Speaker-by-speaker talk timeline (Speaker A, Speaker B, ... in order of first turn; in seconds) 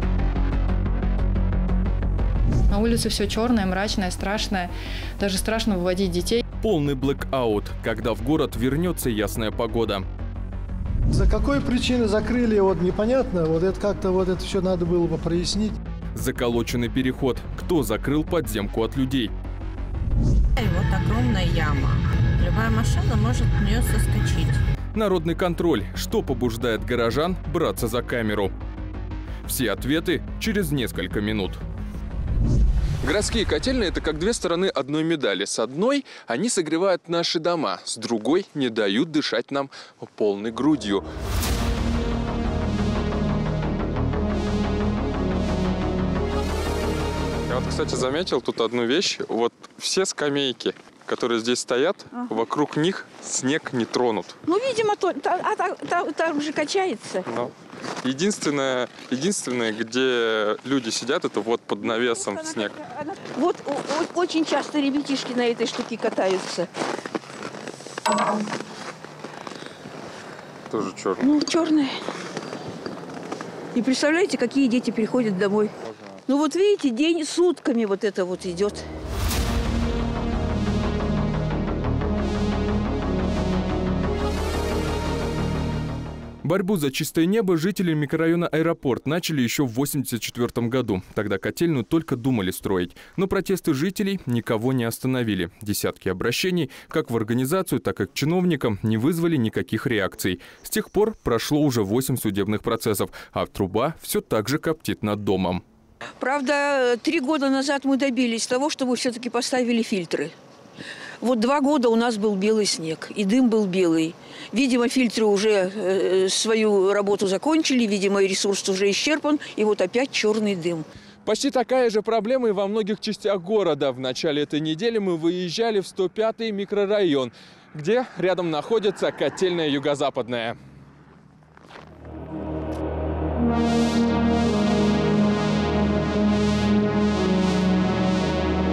Speaker A: 2.7-6.4
Speaker B: 6.6-10.0, 16.1-19.3, 24.9-28.5, 29.4-31.6, 33.0-41.0, 47.5-54.4, 57.2-57.5, 58.0-62.8, 70.7-71.3, 86.4-105.6, 121.2-130.6
Speaker C: 11.1-15.8
Speaker D: 20.6-24.6
Speaker E: 54.5-57.2, 63.2-66.7, 71.2-72.0, 73.7-75.7, 76.3-78.8, 106.2-110.3, 111.2-120.8